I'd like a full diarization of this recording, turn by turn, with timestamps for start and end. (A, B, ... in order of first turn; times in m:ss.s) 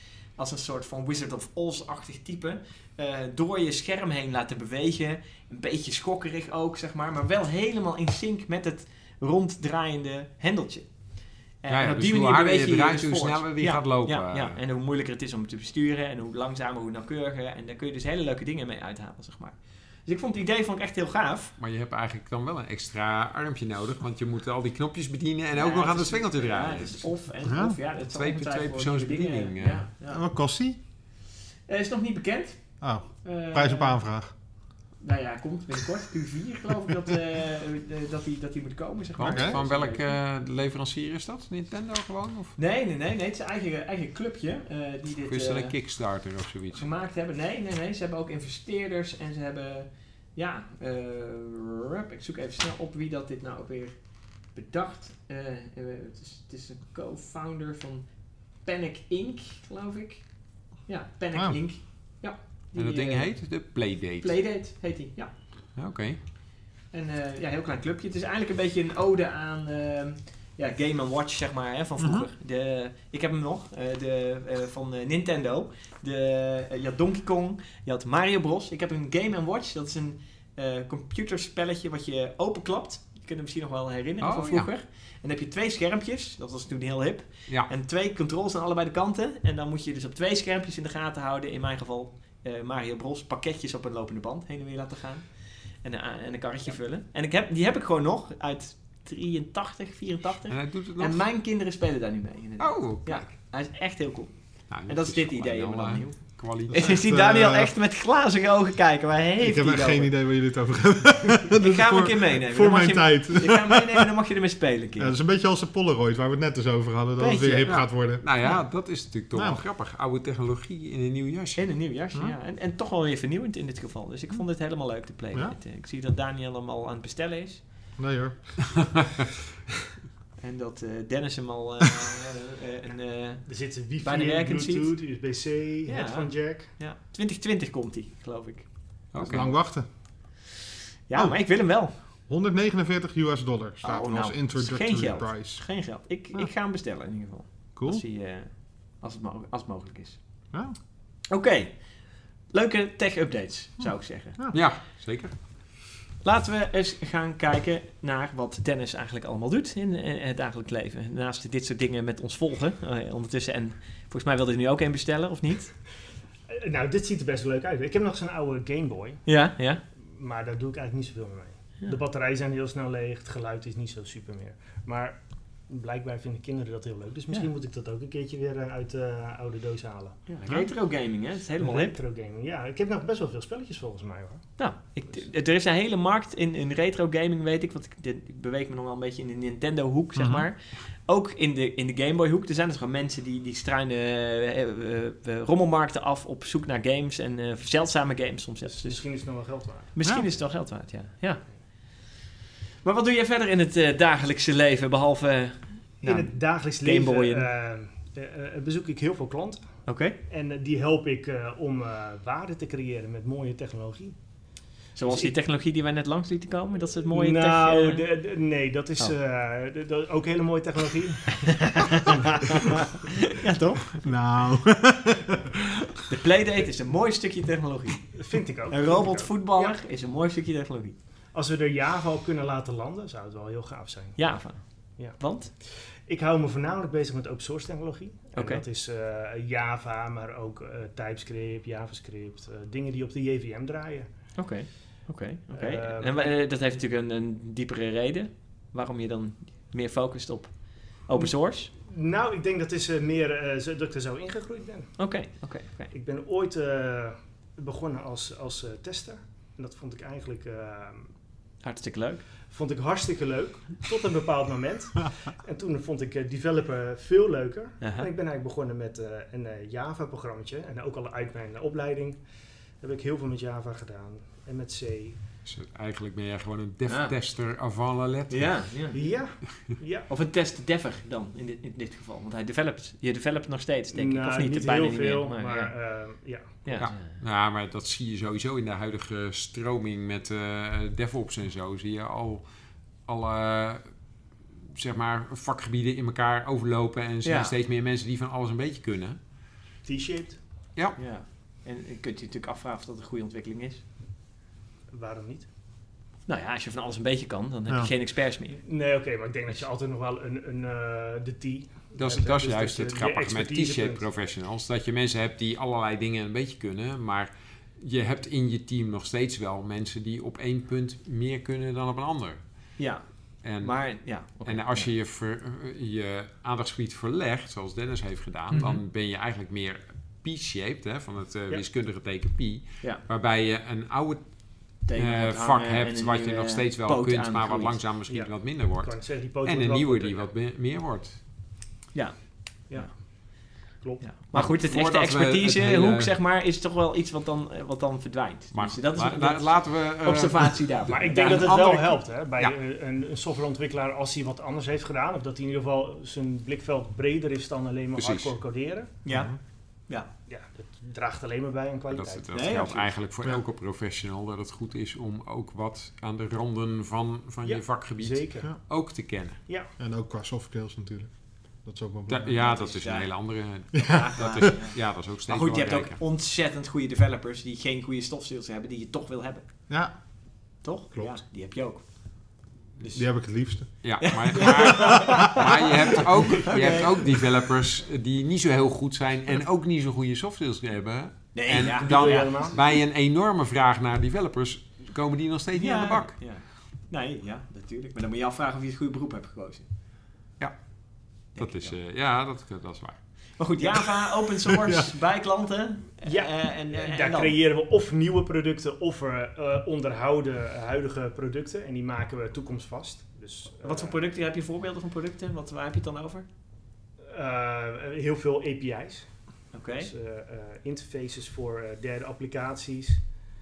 0:00.4-0:10.9 A
0:11.6-0:21.6 A
0:11.7-0:14.6 B
0:21.6-0:27.1 B
0:25.6-0:30.2 A
0:27.4-0:27.8 C
0:28.1-0:29.8 B
0:30.1-0:30.8 C
0:31.7-0:32.6 A
0:32.8-0:34.3 C
0:33.2-0:34.0 A
0:35.0-0:40.1 A
0:39.2-0:42.5 B
0:39.2-0:39.6 C
0:42.6-0:45.8 A
0:45.3-0:46.9 B
0:46.7-0:54.0 A
0:54.5-1:00.3 A
1:00.8-1:03.3 A
1:02.7-1:04.3 B
1:04.2-1:05.3 A
1:05.8-1:06.2 B
1:06.9-1:50.1 A
1:12.0-1:12.2 C
1:24.2-1:24.7 B
1:40.5-1:41.2 B
1:42.6-1:43.3 B
1:44.7-1:47.0 B
1:46.7-1:47.7 C
1:49.4-1:54.0 C
1:51.5-1:55.1 A
1:55.0-1:58.5 C
1:57.2-1:57.9 A
1:57.6-2:01.7 B
1:59.3-1:59.6 C
2:01.6-2:07.6 A
2:08.0-2:09.0 C
2:10.4-2:13.5 A
2:13.4-2:16.7 D
2:14.0-2:14.9 A
2:15.8-2:18.7 A
2:19.1-2:19.6 B
2:19.2-2:19.9 C
2:21.1-2:21.9 A
2:22.3-2:25.7 C
2:23.8-2:30.2 A
2:27.8-2:28.0 C
2:31.3-2:34.4 A
2:34.5-2:35.3 B
2:36.2-2:45.7 A
2:46.5-2:49.2 D
2:49.2-2:49.8 A
2:50.1-3:00.2 D
3:00.3-3:01.9 A
3:01.6-3:04.5 D
3:04.6-3:19.0 A
3:10.2-3:10.4 C
3:18.6-3:19.9 D
3:19.9-3:21.4 A
3:22.8-3:27.5 A
3:26.0-3:29.7 D
3:29.8-3:30.2 A
3:30.2-3:34.2 D
3:35.0-3:38.0 A
3:35.0-3:35.3 D
3:37.1-3:42.7 D
3:41.4-3:44.1 A
3:44.0-3:45.8 C
3:46.1-3:48.2 A
3:48.1-3:49.8 D
3:48.7-3:51.0 A
3:51.3-3:54.3 D
3:54.2-3:54.6 A
3:55.0-4:04.1 D
3:55.1-3:55.5 A
3:58.3-3:58.6 A
4:04.4-4:11.7 A
4:05.5-4:06.4 D
4:11.1-4:15.0 D
4:15.0-4:15.9 A
4:15.9-4:21.1 D
4:21.6-4:22.2 A
4:22.5-4:32.2 D
4:27.8-4:28.1 A
4:32.8-4:35.2 D
4:35.4-4:38.7 B
4:36.9-4:37.1 A
4:38.3-4:39.0 A
4:38.9-4:40.1 D
4:40.1-4:45.7 A
4:43.9-4:46.7 D
4:46.6-4:47.0 A
4:46.8-4:52.4 B
4:53.0-4:53.9 B
4:54.7-4:59.2 B
4:57.2-4:57.5 A
4:59.8-5:00.4 D
5:01.0-5:03.8 A
5:04.9-5:05.5 D
5:06.3-5:08.6 A
5:08.6-5:14.0 D
5:11.9-5:22.7 B
5:22.8-5:24.9 A
5:23.4-5:41.2 B
5:34.8-5:37.8 A
5:38.1-5:40.3 D
5:41.9-5:42.9 A
5:42.7-5:44.0 D
5:44.0-5:51.6 A
5:44.3-5:46.1 B
5:48.5-5:52.5 B
5:50.9-5:58.9 D
5:58.0-5:58.3 B
5:59.0-5:59.4 A
5:59.1-5:59.4 C
6:00.3-6:02.2 D
6:01.9-6:09.4 B
6:02.3-6:02.9 A
6:07.4-6:08.5 D
6:09.8-6:11.1 C
6:11.6-6:12.4 C
6:12.1-6:16.0 B
6:12.3-6:13.1 A
6:13.7-6:14.4 C
6:13.7-6:19.5 A
6:19.7-6:19.9 C
6:20.6-6:21.8 A
6:22.9-6:24.2 C
6:23.8-6:36.2 B
6:24.0-6:27.1 A
6:31.3-6:32.6 A
6:31.7-6:32.6 D
6:35.5-6:39.7 A
6:41.2-6:43.0 B
6:41.3-6:41.8 A
6:43.4-6:47.4 A
6:44.6-6:44.9 C
6:46.0-6:54.0 D
6:53.6-6:56.2 A
6:57.1-6:59.2 D
6:59.5-6:59.9 A
6:59.8-7:03.0 D